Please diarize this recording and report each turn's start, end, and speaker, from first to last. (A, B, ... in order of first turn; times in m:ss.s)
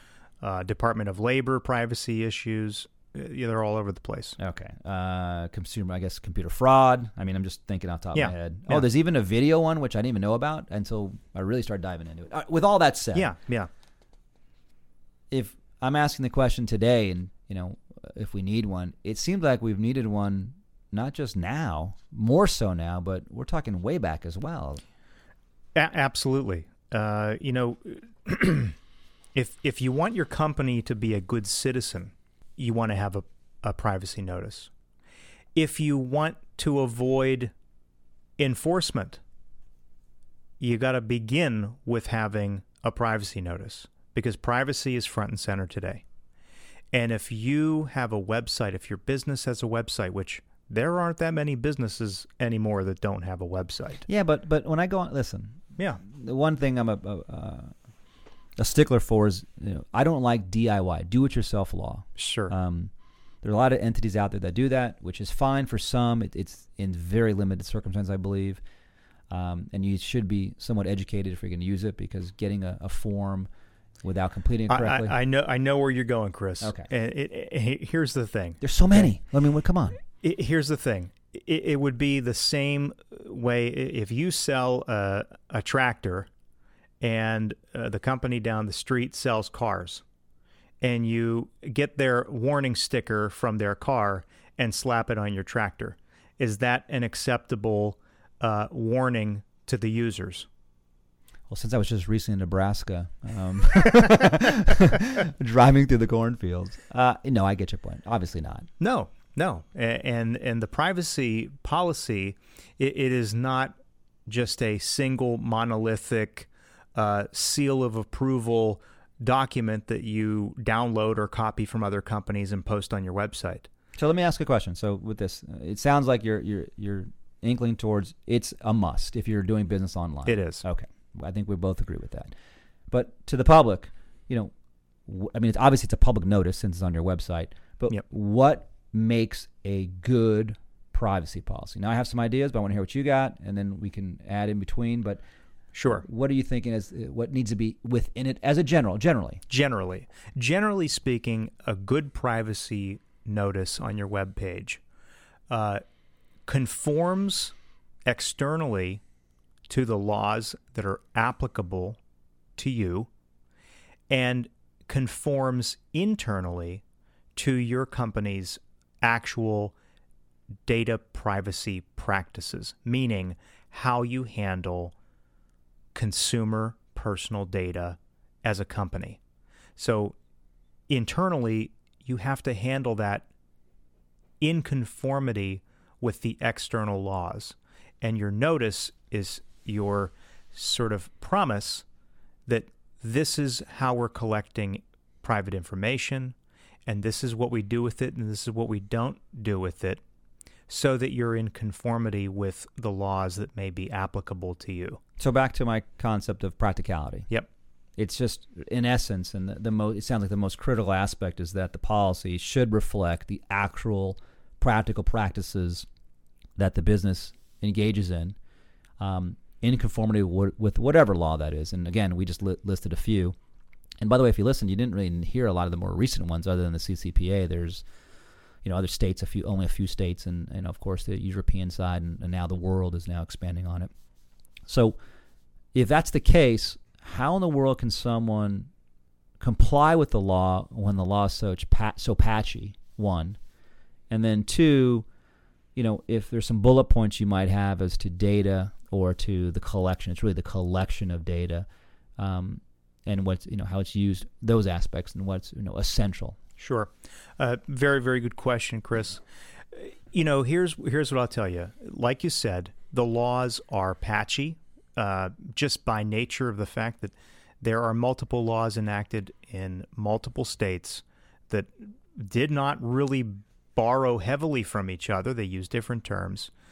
0:00.4-0:04.4 A
0:04.4-0:13.3 B
0:08.1-0:08.9 A
0:13.2-0:13.7 A
0:15.3-0:24.8 B
0:25.8-0:28.8 A
0:29.4-0:34.7 A
0:35.6-0:37.5 A
0:38.4-0:39.2 A
0:40.6-0:46.0 A
0:46.9-0:54.0 A
0:54.1-0:57.7 B
0:55.8-0:56.0 A
0:58.6-1:02.9 B
1:02.2-1:02.5 A
1:03.4-1:08.6 B
1:09.3-1:13.5 B
1:14.0-1:15.2 B
1:14.7-1:19.1 A
1:16.6-1:16.9 B
1:18.6-1:20.0 B
1:20.1-1:26.3 A
1:27.0-1:30.0 A
1:30.8-1:40.5 A
1:41.5-1:48.7 B
1:48.8-1:53.8 A
1:54.3-2:03.7 A
2:04.0-2:12.3 B
2:10.3-2:10.6 A
2:12.9-2:14.5 B
2:15.1-2:25.2 B
2:25.7-2:26.1 A
2:25.9-2:29.4 B
2:29.5-2:34.8 A
2:35.5-2:35.8 A
2:36.5-2:37.5 A
2:38.1-2:39.0 A
2:39.7-2:42.0 A
2:42.6-2:43.1 A
2:44.1-2:46.8 A
2:47.4-2:49.8 A
2:50.7-2:54.9 A
2:55.9-2:59.2 A
2:59.8-3:00.2 A
3:00.9-3:03.3 A
3:04.4-3:11.9 A
3:12.5-3:20.0 A
3:20.7-3:25.0 A
3:25.2-3:27.3 B
3:28.0-3:35.9 B
3:36.6-3:38.4 B
3:39.0-3:43.4 B
3:44.0-3:47.8 B
3:48.6-3:53.9 B
3:54.7-3:55.0 B
3:55.7-3:58.7 B
3:59.4-4:03.4 B
4:04.1-4:05.1 B
4:05.8-4:11.7 B
4:12.2-4:16.4 B
4:16.6-4:36.5 A